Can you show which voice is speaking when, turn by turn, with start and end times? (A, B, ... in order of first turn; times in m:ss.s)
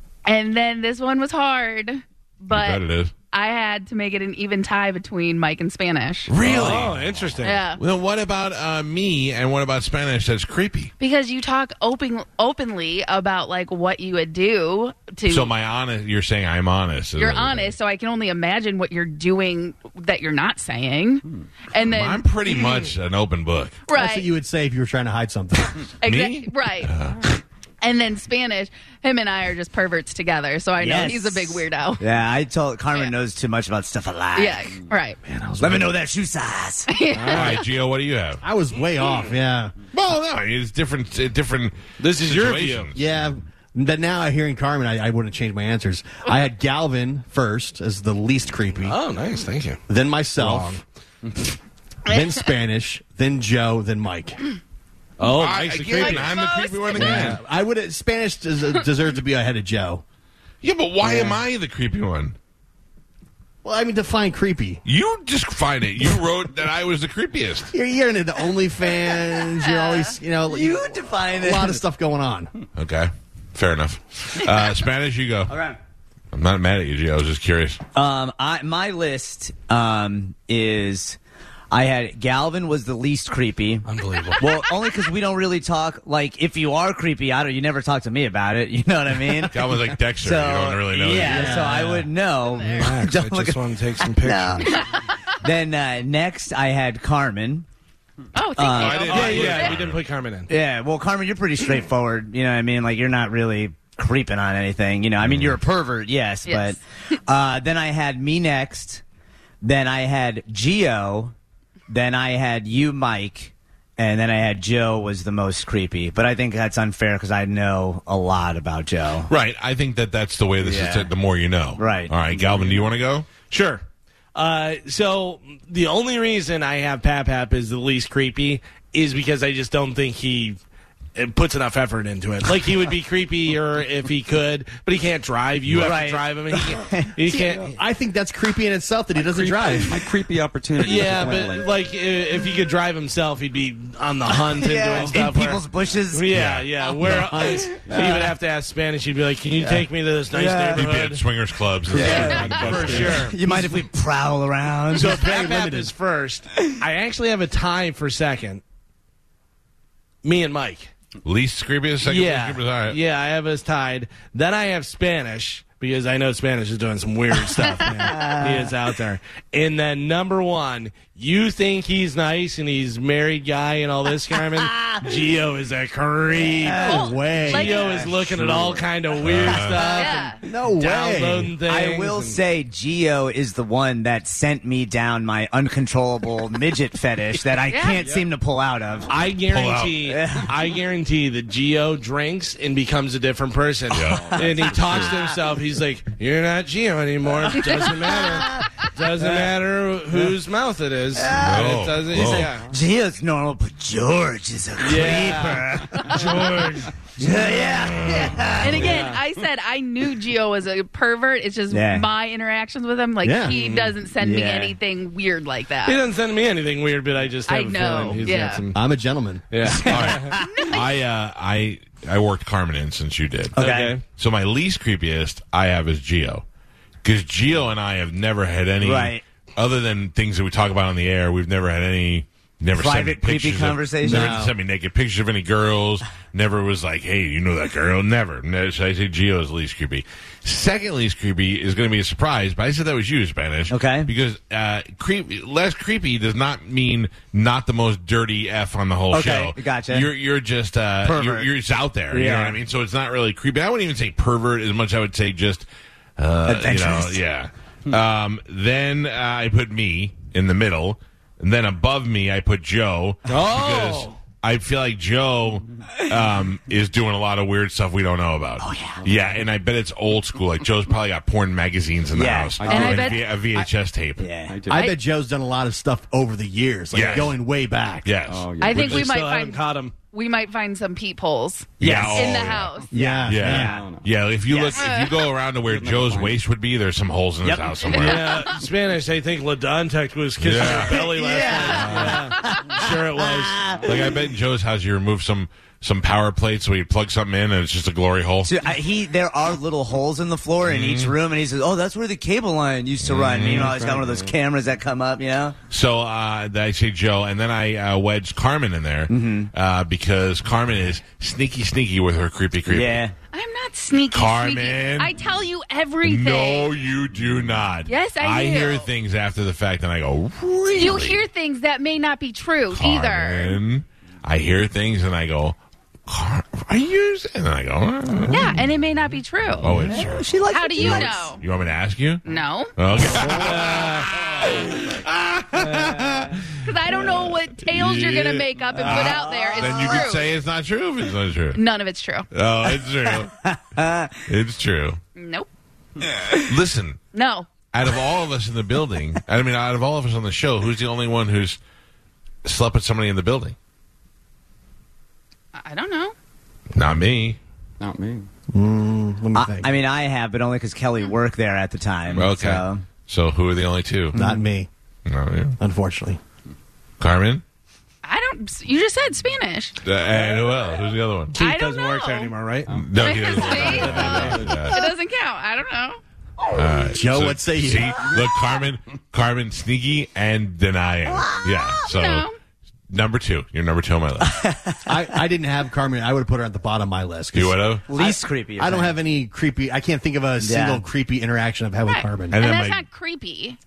0:00.2-0:06.3 A
0:02.5-0:03.1 B
0:06.3-0:07.3 B
0:06.4-0:07.6 C
0:07.4-0:07.8 A
0:07.8-0:10.9 B
0:11.0-0:15.5 A
0:15.3-0:17.7 B
0:17.2-0:22.2 A
0:21.8-0:23.8 B
0:23.9-0:24.3 A
0:23.9-0:25.9 D
0:26.0-0:26.9 A
0:26.0-0:27.4 B
0:27.8-0:32.0 A
0:30.8-0:34.7 E
0:34.4-0:35.2 A
0:35.2-0:35.9 D
0:35.6-0:36.9 E
0:36.9-0:37.6 A
0:37.2-0:37.5 C
0:37.3-0:38.4 B
0:38.4-0:39.8 D
0:39.9-0:43.0 B
0:42.0-0:42.9 C
0:42.9-0:49.0 D
0:48.8-0:49.8 C
0:49.9-0:50.8 D
0:50.4-0:50.8 C
0:52.1-0:52.4 A
0:52.1-0:54.4 D
0:55.2-0:56.3 C
0:55.2-0:57.4 B
0:55.9-0:57.4 A
0:56.9-1:00.0 D
1:00.6-1:02.4 B
1:01.0-1:01.4 D
1:03.6-1:04.8 D
1:04.8-1:07.7 B
1:07.7-1:12.5 D
1:09.6-1:10.1 A
1:10.4-1:11.8 E
1:12.8-1:15.6 B
1:15.5-1:15.8 E
1:16.3-1:17.8 B
1:17.9-1:21.2 E
1:21.7-1:23.8 E
1:23.8-1:24.4 C
1:24.4-1:34.8 E
1:29.5-1:31.7 B
1:31.0-1:32.0 C
1:31.2-1:32.0 D
1:32.4-1:32.8 A
1:32.7-1:34.7 C
1:34.6-1:35.1 A
1:35.4-1:37.7 E
1:38.3-1:39.8 A
1:38.6-1:39.5 E
1:38.7-1:40.0 B
1:39.1-1:40.5 C
1:40.5-1:49.0 E
1:45.2-1:45.6 B
1:46.4-1:46.8 A
1:49.6-1:51.3 E
1:51.9-1:59.3 E
1:59.3-2:03.3 B
2:00.6-2:01.1 E
2:01.8-2:02.1 E
2:02.4-2:02.8 F
2:03.5-2:03.8 C
2:04.3-2:10.6 C
2:11.1-2:17.8 C
2:15.7-2:17.2 E
2:17.7-2:20.0 D
2:19.2-2:21.7 F
2:20.8-2:31.2 C
2:24.4-2:26.3 E
2:26.3-2:26.7 B
2:27.0-2:27.8 D
2:27.1-2:28.3 E
2:27.9-2:28.2 F
2:29.6-2:30.9 E
2:30.7-2:33.3 B
2:31.9-2:33.3 F
2:31.9-2:35.3 E
2:31.9-2:33.6 C
2:34.9-2:38.6 C
2:35.0-2:35.9 D
2:40.2-2:40.9 C
2:41.2-2:43.0 B
2:42.0-3:02.4 C
2:48.0-2:48.7 E
2:54.6-2:55.1 E
2:56.4-2:57.1 E
2:56.6-2:58.8 D
2:56.8-2:58.1 A
2:59.2-2:59.9 B
2:59.7-3:00.4 A
3:00.4-3:01.5 D
3:01.6-3:09.1 E
3:07.7-3:08.0 A
3:09.1-3:22.6 C
3:09.5-3:10.1 B
3:10.0-3:10.5 E
3:13.9-3:14.3 B
3:14.1-3:15.0 F
3:14.3-3:15.4 E
3:17.6-3:19.4 E
3:21.1-3:29.1 E
3:21.4-3:22.5 B
3:24.8-3:26.9 C
3:28.0-3:28.6 B
3:28.6-3:36.0 A
3:28.8-3:29.2 C
3:31.7-3:32.1 E
3:33.2-3:33.5 D
3:33.5-3:33.9 C
3:34.2-3:34.8 E
3:35.8-3:38.8 C
3:37.5-3:38.6 A
3:38.7-3:39.7 D
3:39.5-3:40.3 C
3:39.6-3:46.4 B
3:39.8-3:40.7 E
3:40.4-3:41.0 A
3:43.5-3:43.9 E
3:43.6-3:44.0 C
3:47.0-4:15.7 B
3:48.8-3:49.2 E
3:52.7-3:54.5 E
3:54.0-3:54.5 D
4:03.7-4:04.1 E
4:09.1-4:10.1 E
4:11.0-4:11.5 E
4:12.1-4:12.6 E
4:16.2-4:34.4 B
4:16.4-4:17.2 E
4:23.3-4:24.2 C
4:28.6-4:29.0 E
4:32.1-4:32.6 E
4:32.6-4:33.4 F
4:32.6-4:33.2 A
4:34.2-4:34.6 E
4:34.4-4:34.9 F
4:34.7-4:38.1 D
4:34.7-4:35.0 A
4:36.9-4:37.4 B
4:38.0-4:39.0 B
4:38.2-4:39.0 F
4:38.6-4:39.6 A
4:38.7-4:39.9 C
4:40.1-4:42.9 A
4:41.8-4:42.7 B
4:41.8-4:43.9 E
4:42.9-4:43.8 D
4:43.2-4:48.5 B
4:43.4-4:44.1 F
4:44.5-4:44.9 E
4:44.7-4:45.2 A
4:45.6-4:46.4 F
4:47.4-4:47.8 E
4:47.9-4:48.6 A
4:47.9-4:53.6 C
4:50.4-4:52.3 B
4:50.7-4:54.2 E
4:51.4-4:52.8 A
4:53.8-4:58.5 B
4:58.4-5:05.6 E
5:00.6-5:01.1 B
5:03.0-5:04.0 B
5:05.7-5:13.0 B
5:09.1-5:09.5 E
5:12.7-5:13.1 E
5:13.3-5:16.7 A
5:14.1-5:15.2 B
5:16.0-5:21.2 B
5:17.9-5:18.9 A
5:20.7-5:23.6 A
5:22.7-5:28.6 B
5:28.3-5:29.8 A
5:29.6-5:32.2 B
5:29.8-5:31.3 E
5:30.5-5:31.4 A
5:32.2-5:32.7 A
5:32.8-5:41.6 B
5:33.2-5:34.0 C
5:34.4-5:34.7 E
5:35.5-5:36.4 E
5:36.6-5:40.3 A
5:38.8-5:40.0 E
5:41.5-5:42.3 A
5:42.3-5:43.3 B
5:43.0-5:44.2 E
5:44.3-5:45.0 B
5:45.2-5:45.5 A
5:46.1-5:46.4 E
5:46.4-5:47.0 B
5:47.1-5:47.5 A
5:47.7-5:51.6 B
5:52.4-5:53.6 B
5:55.5-5:56.1 A
5:56.7-5:57.4 B
5:57.8-5:58.3 F
5:58.5-5:59.7 D
5:59.3-6:02.8 E
6:02.1-6:04.2 B
6:04.1-6:04.4 E
6:04.1-6:04.7 D
6:05.0-6:05.6 B
6:05.6-6:06.2 D
6:07.0-6:07.4 B
6:08.0-6:09.8 A
6:09.8-6:11.3 B
6:11.3-6:12.7 C
6:11.3-6:12.3 A
6:12.7-6:14.7 F
6:12.7-6:14.8 B
6:12.9-6:16.0 A
6:13.4-6:14.5 C
6:16.5-6:22.3 B
6:16.9-6:18.1 D
6:21.0-6:21.8 E
6:21.8-6:22.3 A
6:22.9-6:24.4 B
6:24.2-6:25.0 E
6:24.8-6:32.4 D
6:27.3-6:27.9 B
6:27.9-6:29.0 E
6:30.4-6:30.8 E
6:31.8-6:33.6 A
6:32.3-6:32.8 B